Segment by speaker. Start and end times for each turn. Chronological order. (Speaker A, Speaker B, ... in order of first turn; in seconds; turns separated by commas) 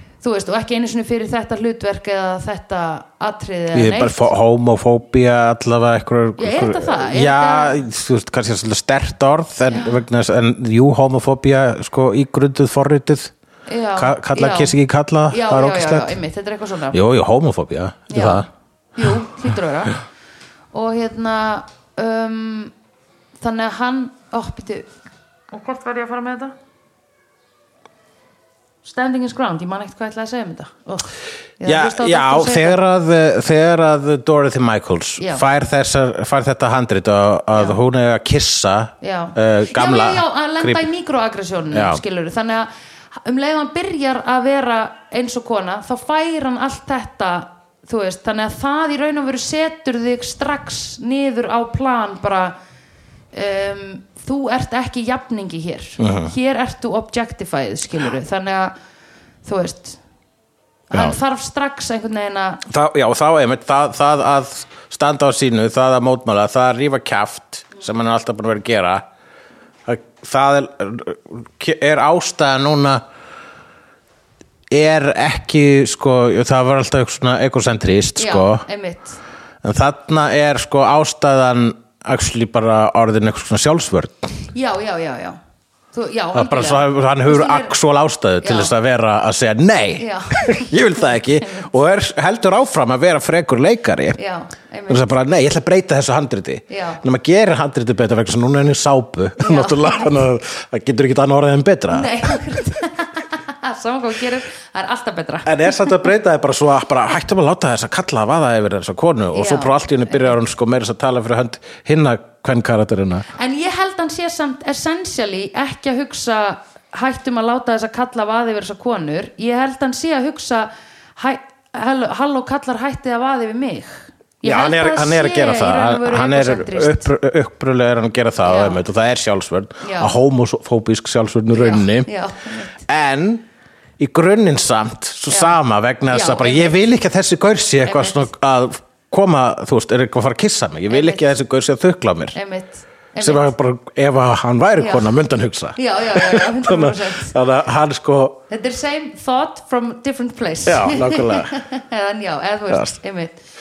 Speaker A: 0.2-4.3, Speaker B: 3.7-13.3, Speaker A: 6.4-7.8, Speaker A: 9.7-10.0, Speaker A: 13.7-14.8, Speaker B: 13.9-16.2, Speaker A: 15.3-17.0, Speaker B: 16.9-18.5, Speaker A: 18.1-20.0, Speaker A: 20.7-22.7, Speaker A: 23.4-24.9, Speaker A: 25.5-26.5, Speaker A: 28.8-32.8, Speaker B: 31.6-40.9, Speaker A: 35.2-35.4, Speaker A: 39.0-52.5, Speaker B: 41.7-42.0, Speaker A: 53.3-58.7, Speaker B: 56.0-56.3, Speaker A: 59.4-60.0, Speaker A: 60.9-62.6, Speaker B: 62.7-69.0, Speaker B: 69.8-73.0, Speaker B: 74.7-78.6, Speaker A: 78.2-79.2, Speaker B: 79.6-84.3, Speaker A: 84.5-85.4, Speaker A: 85.9-87.7, Speaker B: 86.3-94.2, Speaker A: 88.4-88.7, Speaker A: 90.0-90.7, Speaker A: 94.2-95.0, Speaker B: 94.9-102.1, Speaker A: 96.7-97.0, Speaker A: 99.4-100.1, Speaker A: 101.9-106.0, Speaker B: 105.5-113.3, Speaker A: 109.3-110.4, Speaker A: 113.3-127.1, Speaker B: 124.4-132.1, Speaker A: 128.4-128.8, Speaker A: 129.8-130.2, Speaker A: 131.5-132.8, Speaker B: 132.8-133.4, Speaker B: 134.0-142.3, Speaker A: 135.3-135.6, Speaker A: 136.1-136.8, Speaker A: 137.8-138.3, Speaker A: 140.9-141.2, Speaker A: 142.3-143.5, Speaker B: 143.2-148.4, Speaker A: 144.8-145.1, Speaker A: 145.8-147.3, Speaker A: 148.5-153.4, Speaker B: 150.7-151.6, Speaker B: 152.7-153.0